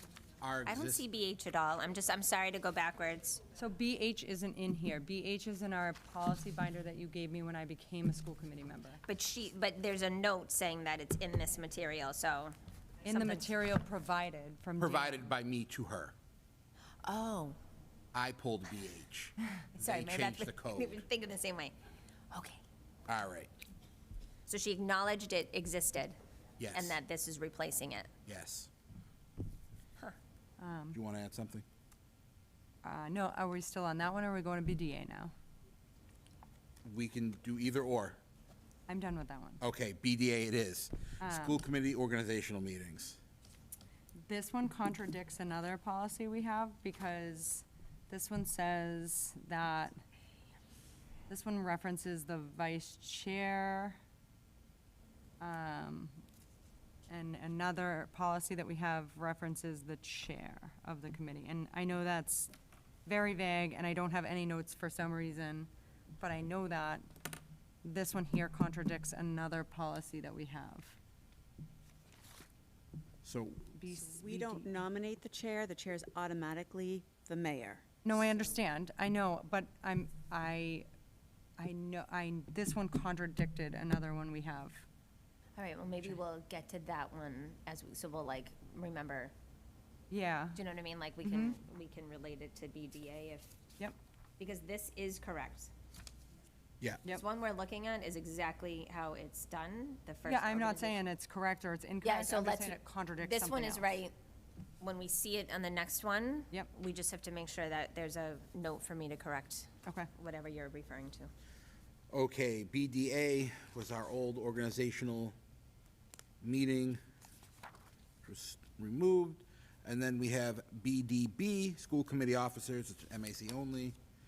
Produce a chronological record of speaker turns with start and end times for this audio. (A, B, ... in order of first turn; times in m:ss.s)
0:00.4-0:01.0 A
0:00.7-0:03.6 B
0:03.5-0:09.0 C
0:09.1-0:13.5 B
0:13.1-0:15.3 C
0:14.8-0:16.2 A
0:17.0-0:17.6 B
0:18.1-0:21.0 A
0:19.8-0:21.7 B
0:22.3-0:22.6 B
0:23.1-0:23.5 A
0:24.5-0:26.2 B
0:26.6-0:27.0 A
0:26.7-0:28.1 B
0:28.3-0:28.7 A
0:30.6-0:31.0 C
0:30.9-0:31.6 A
0:32.8-0:35.3 C
0:36.8-0:38.2 A
0:38.9-0:39.6 C
0:39.6-0:43.2 A
0:41.2-0:41.6 C
0:44.2-0:50.0 C
0:51.3-0:54.0 C
0:55.4-0:56.2 C
0:57.1-1:02.5 C
1:03.1-1:07.1 C
1:07.8-1:11.0 C
1:13.2-1:13.7 A
1:13.8-1:14.7 C
1:13.9-1:18.6 D
1:18.0-1:20.9 C
1:21.6-1:24.8 C
1:25.6-1:29.3 B
1:30.1-1:30.6 C
1:30.6-1:33.5 B
1:31.3-1:31.6 C
1:34.4-1:35.7 B
1:37.0-1:41.0 B
1:40.2-1:44.0 C
1:42.0-1:44.1 B
1:44.8-1:51.3 B
1:52.1-1:55.4 A
1:56.4-1:57.0 A
1:58.2-2:04.0 A